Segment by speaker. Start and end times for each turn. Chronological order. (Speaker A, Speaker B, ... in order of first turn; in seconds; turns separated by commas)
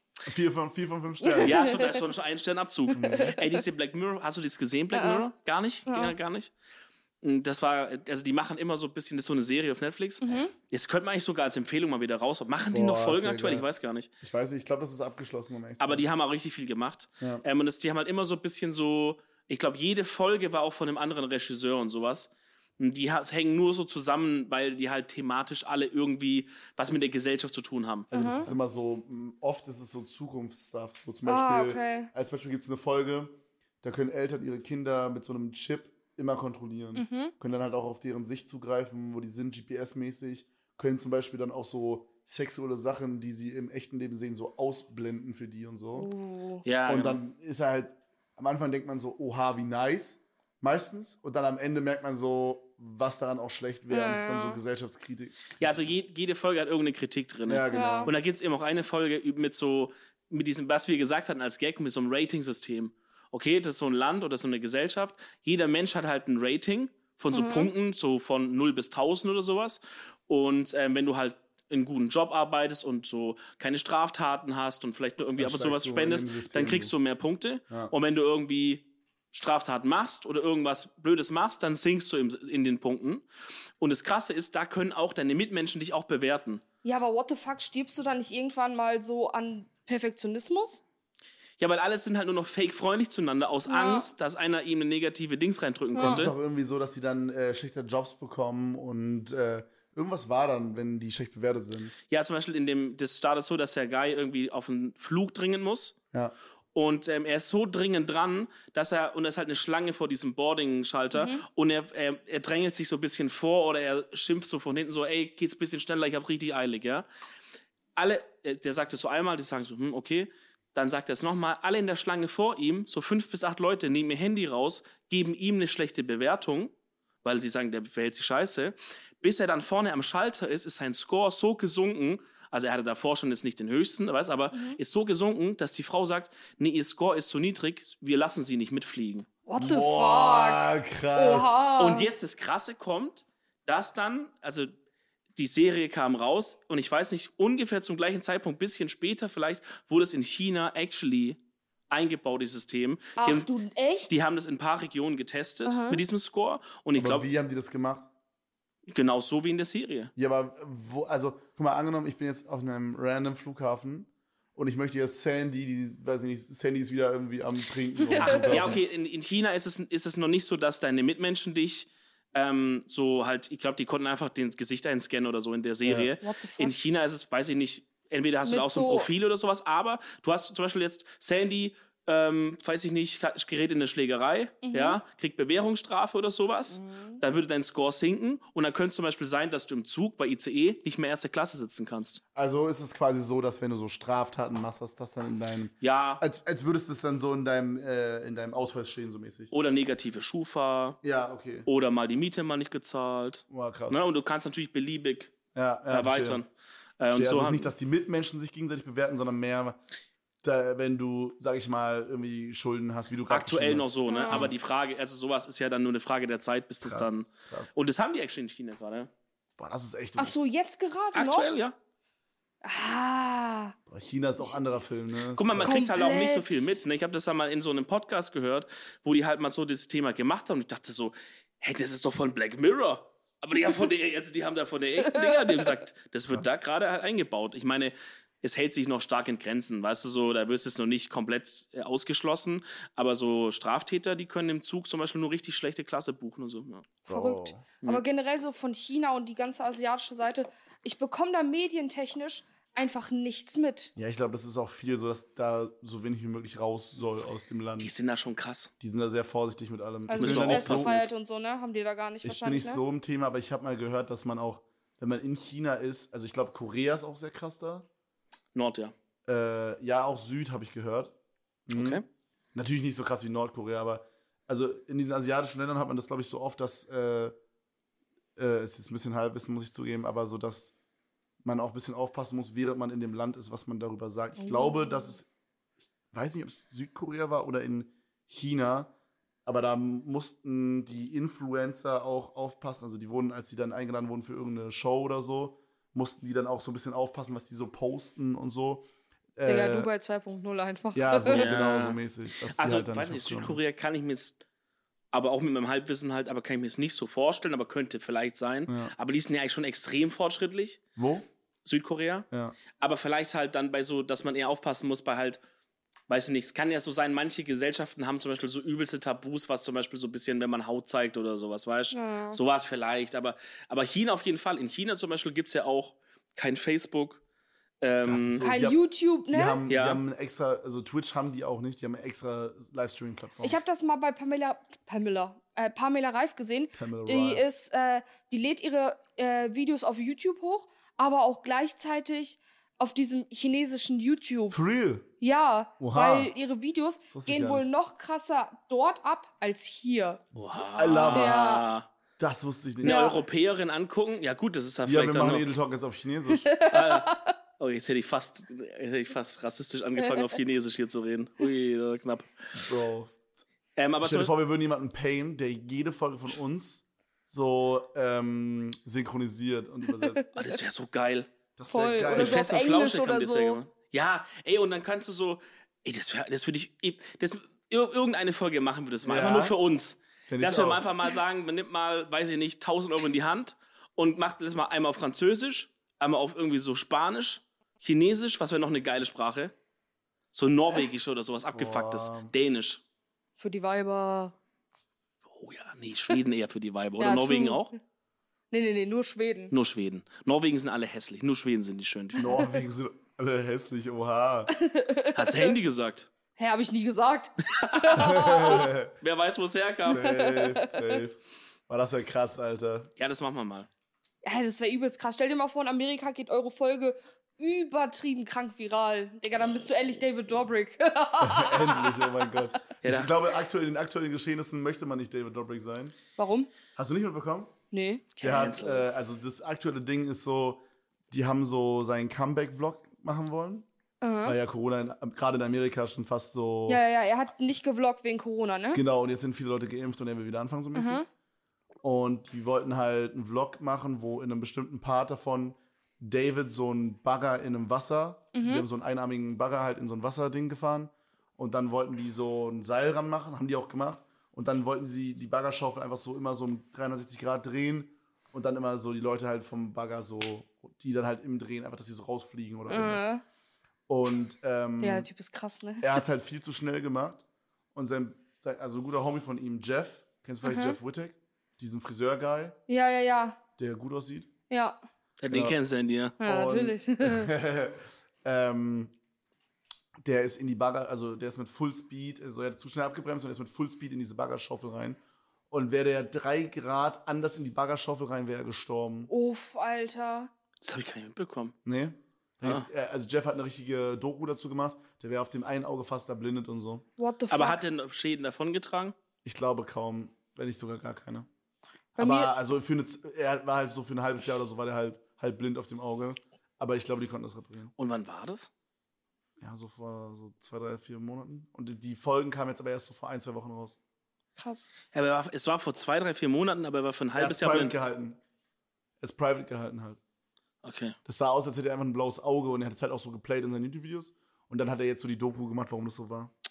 Speaker A: 0.3-1.6, Speaker B: 1.2-2.0, Speaker C: 1.4-6.5, Speaker A: 2.9-3.4, Speaker B: 3.0-3.6, Speaker B: 4.9-5.3, Speaker B: 5.9-6.2, Speaker C: 7.2-14.1, Speaker B: 10.2-10.5, Speaker A: 12.7-13.7, Speaker A: 14.2-16.1, Speaker C: 15.8-28.6, Speaker A: 28.1-46.1, Speaker B: 28.1-28.5, Speaker B: 31.3-32.1, Speaker B: 37.0-37.3, Speaker B: 46.0-46.7, Speaker C: 46.6-47.2, Speaker A: 46.9-55.9, Speaker B: 53.9-54.6, Speaker C: 55.6-83.3, Speaker A: 57.5-58.1, Speaker B: 57.7-58.1, Speaker B: 67.3-67.7, Speaker A: 75.4-77.0, Speaker C: 83.8-86.6, Speaker B: 86.8-90.8, Speaker C: 91.6-96.3, Speaker B: 93.7-94.1, Speaker B: 96.0-96.3, Speaker A: 96.0-102.0, Speaker C: 102.1-106.0, Speaker C: 106.7-117.1, Speaker B: 111.1-111.4, Speaker C: 118.0-126.7, Speaker C: 127.2-139.3, Speaker B: 134.5-134.8, Speaker B: 139.5-142.1, Speaker A: 139.6-141.7, Speaker C: 141.8-144.7, Speaker C: 145.4-151.4, Speaker C: 151.9-153.5, Speaker B: 153.2-154.1, Speaker C: 154.1-157.3, Speaker B: 155.7-156.0, Speaker A: 157.0-158.1, Speaker C: 158.9-160.1, Speaker A: 160.2-168.8, Speaker B: 168.1-168.6, Speaker C: 168.2-192.2, Speaker A: 175.8-176.1, Speaker B: 176.2-176.7, Speaker B: 178.4-179.1, Speaker B: 184.6-185.0, Speaker B: 186.7-187.2, Speaker A: 192.3-199.5, Speaker C: 195.8-196.2, Speaker C: 199.5-201.0, Speaker A: 201.0-201.7, Speaker C: 201.7-205.3, Speaker A: 203.5-204.1, Speaker A: 205.6-206.4, Speaker C: 205.9-207.7, Speaker A: 207.1-209.8, Speaker A: 210.4-214.5, Speaker C: 213.3-219.1, Speaker B: 214.1-214.5, Speaker A: 216.8-217.7, Speaker A: 219.6-220.4, Speaker B: 220.2-221.5, Speaker C: 221.1-221.8, Speaker B: 222.6-223.8, Speaker A: 223.9-225.8, Speaker C: 225.4-246.9, Speaker B: 225.6-226.8, Speaker B: 235.1-235.7, Speaker A: 236.3-236.6, Speaker B: 247.1-253.9, Speaker A: 247.1-247.7, Speaker A: 254.0-257.9, Speaker C: 257.8-258.7, Speaker A: 258.8-261.1, Speaker B: 260.1-262.8, Speaker C: 260.2-261.0, Speaker A: 262.2-267.9, Speaker C: 268.5-268.9, Speaker A: 269.3-271.1, Speaker A: 271.7-272.0, Speaker C: 271.7-272.1, Speaker A: 272.6-277.4, Speaker A: 278.4-280.7, Speaker A: 281.4-285.3, Speaker B: 284.4-285.2, Speaker A: 286.1-288.9, Speaker A: 289.5-299.9, Speaker B: 299.5-301.5, Speaker A: 300.9-303.6, Speaker C: 301.3-304.4, Speaker C: 305.1-310.8, Speaker A: 308.7-308.9, Speaker A: 311.0-311.3, Speaker C: 311.6-315.4, Speaker A: 312.3-312.6, Speaker C: 316.1-327.2, Speaker B: 321.9-322.4, Speaker C: 327.8-328.4, Speaker A: 328.0-333.6, Speaker B: 328.4-329.6, Speaker C: 329.7-330.0, Speaker B: 333.4-344.6, Speaker A: 336.7-337.5, Speaker A: 344.5-345.1, Speaker B: 345.2-350.2, Speaker A: 345.8-346.3, Speaker A: 347.1-347.7, Speaker C: 350.4-351.9, Speaker A: 350.8-351.4, Speaker B: 351.1-351.7, Speaker A: 352.2-353.1, Speaker C: 352.8-355.5, Speaker B: 352.8-353.2, Speaker A: 354.9-356.5, Speaker B: 356.3-357.3, Speaker C: 356.7-362.3, Speaker B: 360.0-360.3, Speaker A: 362.5-363.2, Speaker C: 363.8-364.3, Speaker A: 364.0-370.2, Speaker B: 369.9-370.3, Speaker C: 370.4-371.3, Speaker A: 371.6-372.5, Speaker B: 371.7-373.6, Speaker C: 372.1-389.5, Speaker A: 379.1-379.6, Speaker A: 380.3-380.9, Speaker C: 390.3-392.8, Speaker A: 391.5-392.3, Speaker B: 393.4-394.4, Speaker C: 395.3-397.7, Speaker B: 397.0-397.7, Speaker B: 398.5-399.5, Speaker C: 399.5-402.3, Speaker A: 402.2-404.5, Speaker B: 404.5-405.6, Speaker C: 405.1-406.1, Speaker B: 406.4-408.7, Speaker C: 407.5-410.1, Speaker A: 408.0-409.0, Speaker B: 409.8-411.0, Speaker A: 409.9-412.9, Speaker C: 413.0-413.7, Speaker B: 414.2-422.3, Speaker A: 421.2-426.0, Speaker C: 422.8-423.1, Speaker B: 426.2-426.5, Speaker A: 426.8-427.5, Speaker B: 427.7-428.2, Speaker C: 428.2-428.9, Speaker A: 428.2-433.7, Speaker B: 434.0-434.4, Speaker A: 434.2-436.8, Speaker B: 436.7-438.8, Speaker A: 438.7-441.0, Speaker B: 440.8-441.1, Speaker A: 441.8-463.1, Speaker B: 448.4-448.6, Speaker B: 462.7-463.2, Speaker A: 463.9-465.1, Speaker B: 464.8-466.0, Speaker A: 465.8-472.6, Speaker B: 470.4-470.8, Speaker B: 472.7-473.4, Speaker A: 473.6-474.3, Speaker B: 474.5-474.8, Speaker C: 475.2-476.2, Speaker A: 475.3-475.6, Speaker A: 476.2-478.9, Speaker B: 476.2-477.3, Speaker A: 480.0-485.0, Speaker A: 485.5-489.1, Speaker B: 489.1-490.3, Speaker C: 490.6-491.6, Speaker A: 491.6-496.9, Speaker B: 497.0-497.6, Speaker C: 497.3-499.0, Speaker A: 499.2-501.3, Speaker B: 502.0-502.3, Speaker A: 502.0-507.7, Speaker C: 507.8-508.5, Speaker A: 509.4-513.8, Speaker B: 514.4-514.7, Speaker C: 514.9-517.8, Speaker A: 517.2-518.2, Speaker A: 519.0-520.0, Speaker C: 520.6-521.0, Speaker A: 521.1-526.3